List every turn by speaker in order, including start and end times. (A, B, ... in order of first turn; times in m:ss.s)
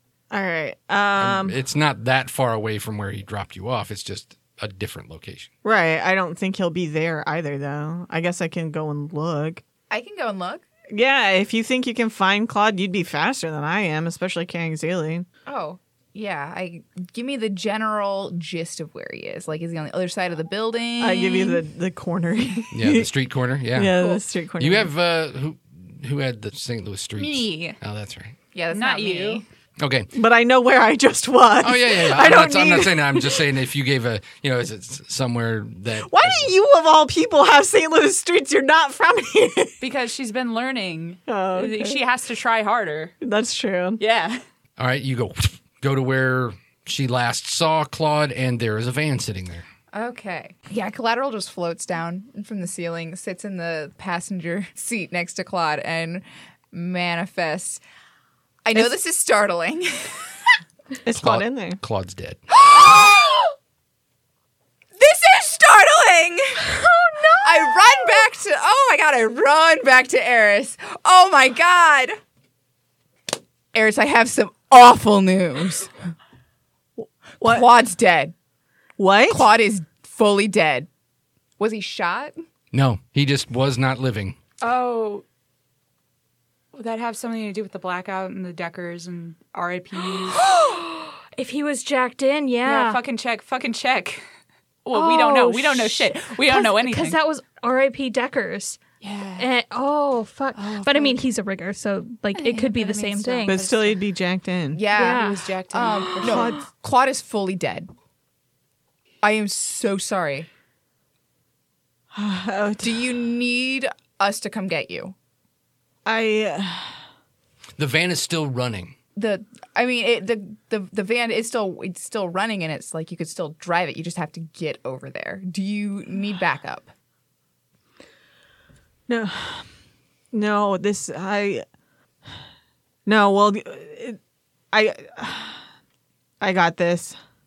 0:00.3-0:01.6 A
0:01.2-0:05.5 B
0:05.6-0:09.6 A
0:09.9-0:10.6 C
0:10.9-0:15.3 A
0:15.5-0:21.6 C
0:21.0-0:23.1 A
0:22.7-0:24.0 B
0:23.7-0:24.9 A
0:24.6-0:28.4 B
0:27.2-0:27.8 D
0:28.5-0:29.4 C
0:28.7-0:29.4 D
0:29.8-0:30.1 B
0:30.1-0:33.4 A
0:31.6-0:36.5 B
0:36.0-0:39.8 A
0:39.8-0:43.2 D
0:41.3-0:42.0 A
0:43.2-0:44.0 A
0:44.0-0:44.4 D
0:44.8-0:49.7 B
0:49.9-0:57.8 C
0:58.6-1:00.2 C
1:01.0-1:01.8 A
1:01.2-1:02.4 B
1:02.5-1:03.5 C
1:05.0-1:06.8 C
1:07.4-1:12.2 C
1:13.7-1:15.9 C
1:17.0-1:17.7 A
1:17.4-1:18.3 C
1:19.0-1:19.5 A
1:19.3-1:20.9 C
1:21.6-1:22.4 C
1:22.7-1:24.4 B
1:24.6-1:25.2 D
1:26.7-1:30.4 D
1:30.2-1:33.0 E
1:32.6-1:34.2 D
1:34.8-1:37.2 D
1:34.9-1:38.8 E
1:39.0-1:39.5 D
1:39.4-1:43.6 E
1:40.6-1:41.2 D
1:42.3-1:44.0 D
1:43.5-1:44.8 A
1:44.7-1:47.9 C
1:44.9-1:45.5 E
1:44.9-1:46.6 D
1:46.2-1:46.6 A
1:49.2-1:50.5 C
1:52.1-1:53.0 A
1:52.8-1:55.2 C
1:56.0-1:57.0 A
1:57.8-1:59.0 B
1:59.2-2:06.9 C
2:09.1-2:09.7 A
2:10.3-2:11.6 A
2:13.1-2:14.2 A
2:14.7-2:15.6 A
2:16.4-2:17.2 A